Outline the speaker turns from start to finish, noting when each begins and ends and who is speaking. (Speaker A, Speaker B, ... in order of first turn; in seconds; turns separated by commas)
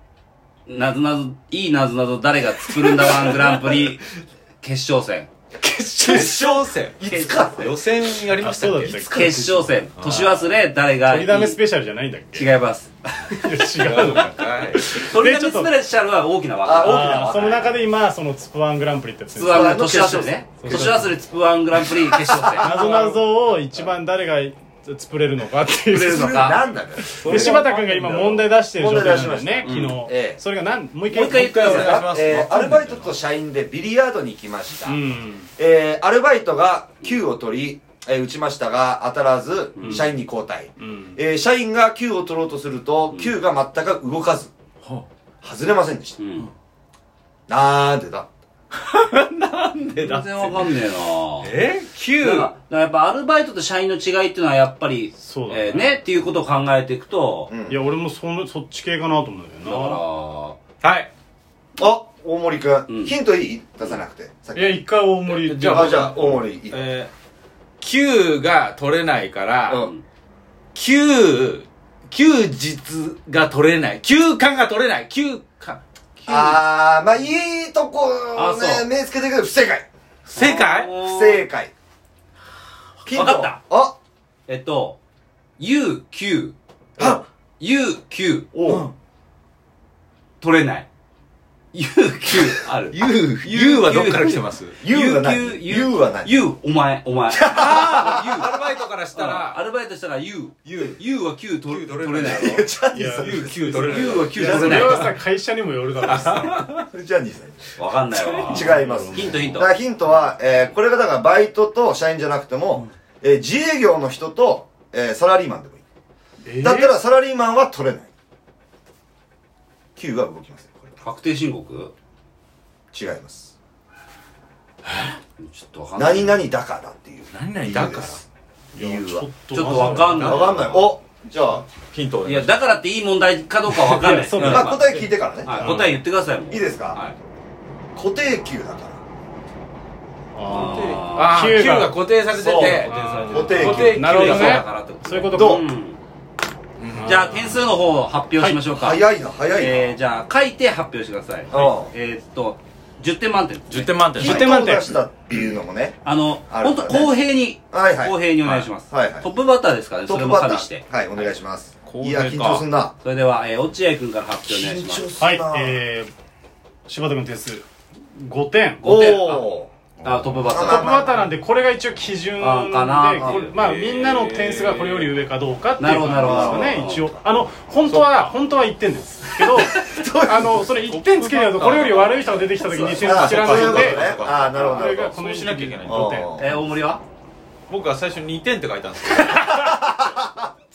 Speaker A: 0.7-4.1, Speaker A: 4.6-5.3, Speaker B: 5.9-7.7, Speaker C: 6.0-9.2, Speaker A: 7.0-7.7, Speaker D: 8.4-9.7, Speaker A: 8.9-11.6, Speaker C: 9.9-10.4, Speaker D: 11.1-12.5, Speaker A: 12.3-13.4, Speaker D: 13.3-15.7, Speaker C: 13.8-14.9, Speaker A: 15.0-17.7, Speaker B: 16.6-17.8, Speaker D: 16.8-19.8, Speaker A: 19.3-23.0, Speaker B: 19.5-21.0, Speaker D: 20.6-21.1, Speaker B: 22.2-22.7, Speaker D: 22.6-31.8, Speaker C: 22.8-23.1, Speaker A: 25.9-26.6, Speaker B: 25.9-27.6, Speaker C: 27.2-29.3, Speaker B: 28.7-30.4, Speaker A: 29.6-30.1, Speaker C: 31.1-33.1, Speaker A: 31.1-32.1, Speaker B: 31.6-35.0, Speaker D: 34.8-35.5, Speaker B: 35.5-44.5, Speaker A: 39.8-40.0, Speaker D: 39.8-40.1, Speaker D: 40.8-41.2, Speaker A: 43.1-43.4, Speaker B: 45.4-46.2, Speaker A: 46.2-46.5, Speaker B: 47.5-48.3, Speaker C: 48.7-50.8, Speaker A: 50.0-51.5, Speaker C: 51.4-52.5, Speaker A: 52.2-57.5, Speaker D: 55.2-56.0, Speaker B: 57.5-57.8, Speaker D: 57.7-60.0, Speaker A: 59.6-60.6, Speaker C: 60.8-61.1, Speaker B: 61.8-64.8, Speaker A: 62.9-63.2, Speaker D: 64.5-66.0, Speaker C: 65.3-67.1, Speaker B: 65.5-66.9, Speaker C: 67.8-69.8, Speaker A: 69.7-70.0, Speaker C: 70.7-76.6, Speaker B: 76.3-79.9, Speaker A: 78.3-78.9, Speaker C: 80.3-80.9, Speaker A: 80.3-81.5, Speaker B: 81.0-81.7, Speaker A: 83.0-83.6, Speaker B: 83.0-84.0, Speaker A: 84.5-85.0, Speaker A: 85.6-86.5, Speaker B: 87.0-87.2, Speaker A: 87.6-88.5, Speaker B: 88.5-88.9, Speaker C: 88.7-88.9, Speaker A: 90.4-90.9, Speaker A: 91.7-98.5, Speaker C: 92.9-94.8, Speaker B: 94.8-96.4, Speaker B: 97.3-98.6, Speaker C: 97.5-99.6, Speaker A: 99.1-102.7, Speaker C: 100.7-101.0, Speaker C: 101.6-102.7, Speaker B: 102.2-105.0, Speaker D: 102.9-103.4, Speaker C: 103.2-105.0, Speaker A: 103.4-105.1, Speaker D: 104.3-106.6, Speaker C: 106.0-106.7, Speaker B: 106.7-107.8, Speaker A: 107.8-109.8, Speaker C: 108.1-108.6, Speaker B: 108.4-115.8, Speaker D: 108.5-109.7, Speaker D: 116.4-116.9, Speaker B: 116.6-118.1, Speaker B: 120.0-121.0, Speaker A: 121.0-121.9, Speaker B: 122.9-123.5, Speaker C: 124.9-125.1, Speaker A: 125.4-126.4, Speaker B: 126.0-128.2, Speaker C: 127.3-128.2, Speaker D: 128.7-130.5, Speaker B: 128.8-129.3, Speaker A: 129.5-130.9, Speaker C: 129.7-130.8, Speaker B: 130.1-131.7, Speaker C: 131.7-132.6, Speaker A: 132.2-137.1, Speaker C: 133.7-134.7, Speaker D: 134.0-134.7, Speaker B: 134.4-135.8, Speaker D: 135.6-135.9, Speaker C: 135.6-135.9, Speaker B: 136.5-137.0, Speaker B: 137.9-139.0, Speaker D: 140.3-142.0, Speaker A: 140.5-141.4, Speaker C: 140.5-144.9, Speaker B: 142.3-144.0, Speaker D: 142.8-145.7, Speaker A: 143.7-146.0, Speaker C: 146.8-147.2, Speaker D: 146.9-147.6, Speaker A: 147.0-154.0, Speaker B: 148.8-149.9, Speaker B: 151.5-151.9, Speaker C: 153.7-154.6, Speaker D: 154.1-155.0, Speaker B: 154.2-158.2, Speaker A: 156.0-160.8, Speaker C: 158.4-158.7, Speaker B: 158.9-159.3, Speaker B: 160.0-162.9, Speaker C: 161.9-162.6, Speaker A: 163.0-165.1, Speaker B: 164.5-165.8, Speaker D: 165.2-166.1, Speaker D: 166.9-167.6, Speaker D: 168.1-169.0, Speaker A: 168.8-171.1, Speaker B: 168.8-169.7, Speaker C: 170.0-170.7, Speaker B: 170.5-171.2, Speaker D: 170.6-186.3, Speaker A: 172.4-173.5, Speaker B: 173.2-173.5, Speaker C: 173.5-175.1, Speaker A: 175.8-177.1, Speaker B: 176.1-176.8, Speaker C: 177.9-178.1, Speaker B: 179.5-180.7, Speaker C: 180.9-186.3, Speaker B: 182.9-185.1, Speaker B: 185.8-186.6, Speaker A: 186.4-187.0, Speaker C: 187.7-189.7, Speaker B: 189.5-190.5